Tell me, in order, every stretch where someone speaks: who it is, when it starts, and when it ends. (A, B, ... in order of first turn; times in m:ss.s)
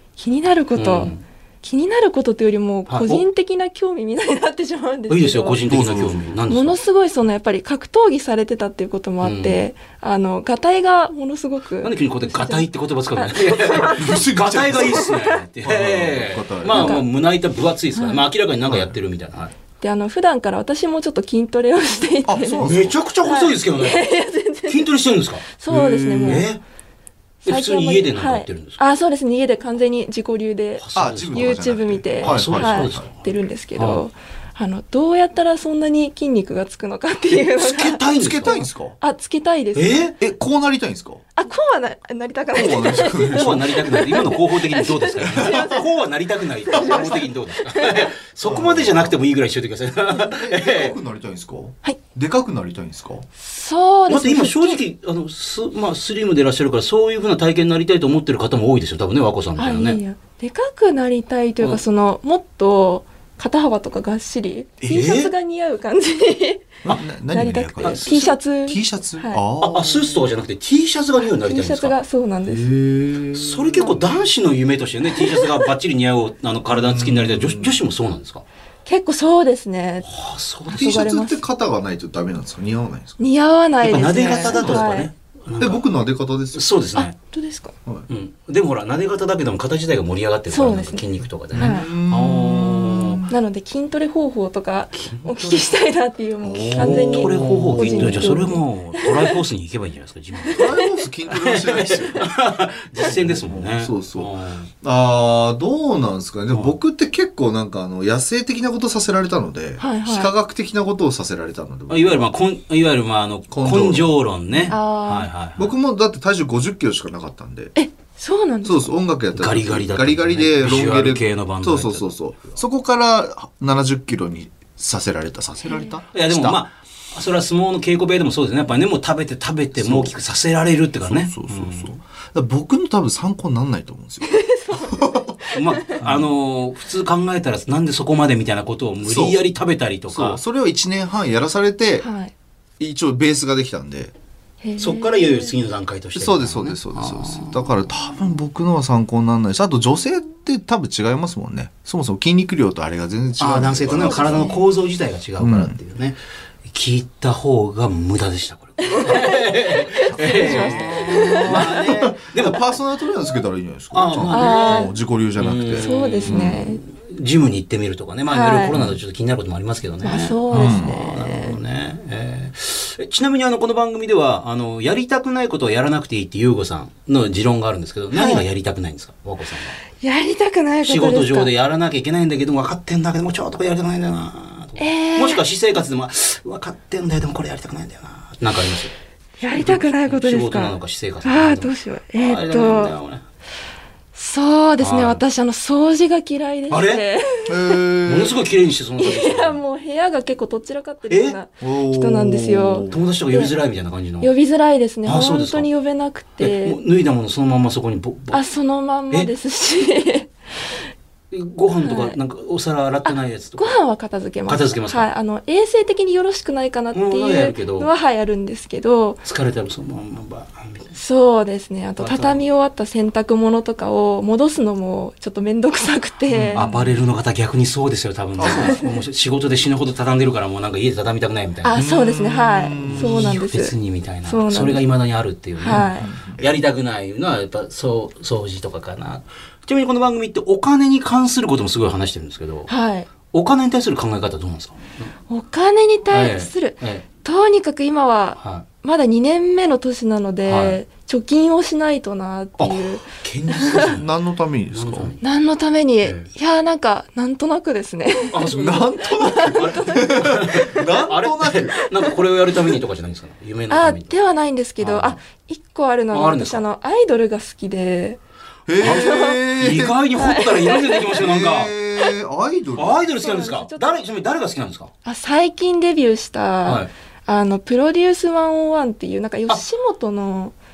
0:00.2-0:05.6 A
0:00.7-0:01.2 B
0:02.9-0:03.2 B
0:05.1-0:06.8 B
0:05.7-0:06.2 C
0:06.5-0:15.4 A
0:09.2-0:09.6 B
0:11.8-0:19.5 B
0:14.0-0:17.0 C
0:16.7-0:17.0 A
0:17.9-0:18.2 A
0:18.7-0:18.9 C
0:19.8-0:22.7 A
0:22.2-0:23.0 C
0:22.6-0:24.1 B
0:23.2-0:24.9 A
0:24.7-0:25.6 B
0:25.5-0:26.5 A
0:25.7-0:26.5 C
0:26.2-0:26.6 B
0:27.4-0:28.8 B
0:27.4-0:40.0 A
0:30.8-0:34.0 B
0:30.9-0:33.0 C
0:37.3-0:38.6 B
0:38.2-0:38.9 C
0:39.7-0:40.1 B
0:40.2-0:41.2 C
0:41.4-0:45.8 A
0:42.5-0:43.7 C
0:43.2-0:51.0 B
0:45.3-0:45.6 C
0:46.7-0:48.1 A
0:46.8-0:47.1 C
0:48.4-0:49.2 C
0:50.1-0:53.2 C
0:53.4-0:54.8 A
0:54.1-1:00.0 B
0:59.6-1:09.4 A
1:04.9-1:05.3 B
1:06.8-1:10.2 C
1:07.8-1:08.3 B
1:09.6-1:12.0 B
1:11.2-1:12.7 A
1:12.5-1:14.2 C
1:13.3-1:18.4 B
1:15.1-1:15.7 A
1:16.7-1:17.8 C
1:18.8-1:20.1 A
1:20.0-1:20.9 B
1:20.7-1:21.4 A
1:20.7-1:23.2 C
1:23.2-1:25.1 A
1:23.8-1:25.8 B
1:24.5-1:24.9 C
1:25.6-1:26.6 C
1:26.5-1:27.1 B
1:27.0-1:27.7 A
1:28.1-1:33.2 B
1:30.5-1:31.9 A
1:31.5-1:33.3 C
1:33.3-1:39.3 A
1:35.0-1:35.6 B
1:36.4-1:38.4 C
1:36.7-1:40.7 B
1:40.5-1:40.9 A
1:40.5-1:42.3 C
1:41.3-1:44.7 B
1:42.9-1:52.3 C
1:46.5-1:46.8 B
1:49.8-1:50.3 A
1:51.9-1:55.7 B
1:53.5-1:54.7 C
1:54.7-1:55.3 A
1:55.6-1:57.7 C
1:57.8-1:58.9 A
1:58.6-2:06.6 C
1:59.3-2:02.1 B
2:06.1-2:11.9 B
2:09.8-2:10.1 C
2:11.0-2:15.3 C
2:14.2-2:15.9 A
2:15.5-2:20.4 B
2:16.0-2:16.3 C
2:19.0-2:19.4 C
2:20.1-2:22.0 C
2:22.0-2:22.3 A
2:22.8-2:24.1 C
2:24.6-2:25.5 A
2:24.8-2:27.6 B
2:26.1-2:34.6 C
2:33.4-2:42.7 B
2:34.1-2:34.6 A
2:35.4-2:35.8 C
2:38.8-2:41.8 A
2:40.1-2:46.6 C
2:43.9-2:59.8 B
2:44.3-2:44.9 A
2:45.8-2:46.8 A
2:48.3-2:48.8 A
2:48.7-2:49.0 C
2:50.0-2:51.6 A
2:50.5-2:51.0 C
2:58.1-2:58.4 A
3:00.0-3:01.5 A
3:00.8-3:08.9 B
3:04.8-3:05.4 A
3:09.4-3:12.9 A
3:09.5-3:13.2 B
3:14.1-3:17.9 A
3:14.8-3:15.2 B
3:16.7-3:17.0 B
3:17.5-3:18.4 C
3:18.0-3:19.6 B
3:19.0-3:23.5 A
3:21.1-3:21.4 B
3:21.6-3:23.0 C
3:22.9-3:24.3 B
3:24.2-3:26.8 A
3:25.0-3:25.7 B
3:26.4-3:28.4 B
3:28.3-3:30.3 A
3:31.3-3:33.8 B
3:31.8-3:32.2 A
3:33.0-3:39.2 A
3:34.5-3:35.1 B
3:36.9-3:37.9 B
3:39.2-3:40.9 B
3:40.9-3:46.6 A
3:42.0-3:42.4 B
3:46.3-3:47.0 C
3:46.5-3:51.8 B
3:48.4-3:48.8 C
3:48.5-3:48.9 A
3:51.6-3:53.7 A
3:51.7-3:53.4 C
3:52.8-4:02.7 B
3:54.2-3:54.8 A
3:55.6-3:56.1 A
3:55.6-3:56.4 C
4:02.7-4:03.1 A
4:03.3-4:05.1 B
4:05.3-4:13.9 A
4:06.1-4:07.0 B
4:08.4-4:08.6 B
4:10.4-4:10.8 B
4:12.6-4:14.1 B
4:13.7-4:15.1 C
4:14.7-4:15.2 B
4:15.2-4:20.9 A
4:16.0-4:16.3 B
4:18.3-4:24.2 B
4:18.5-4:21.8 C
4:21.8-4:22.1 A
4:23.7-4:28.2 A
4:24.8-4:25.2 B
4:26.1-4:26.6 B
4:28.7-4:30.0 C
4:28.8-4:29.4 A
4:28.8-4:31.7 B
4:30.1-4:31.2 A
4:31.1-4:33.0 C
4:32.8-4:34.9 B
4:33.2-4:34.0 A
4:35.0-4:40.5 A
4:36.6-4:36.9 B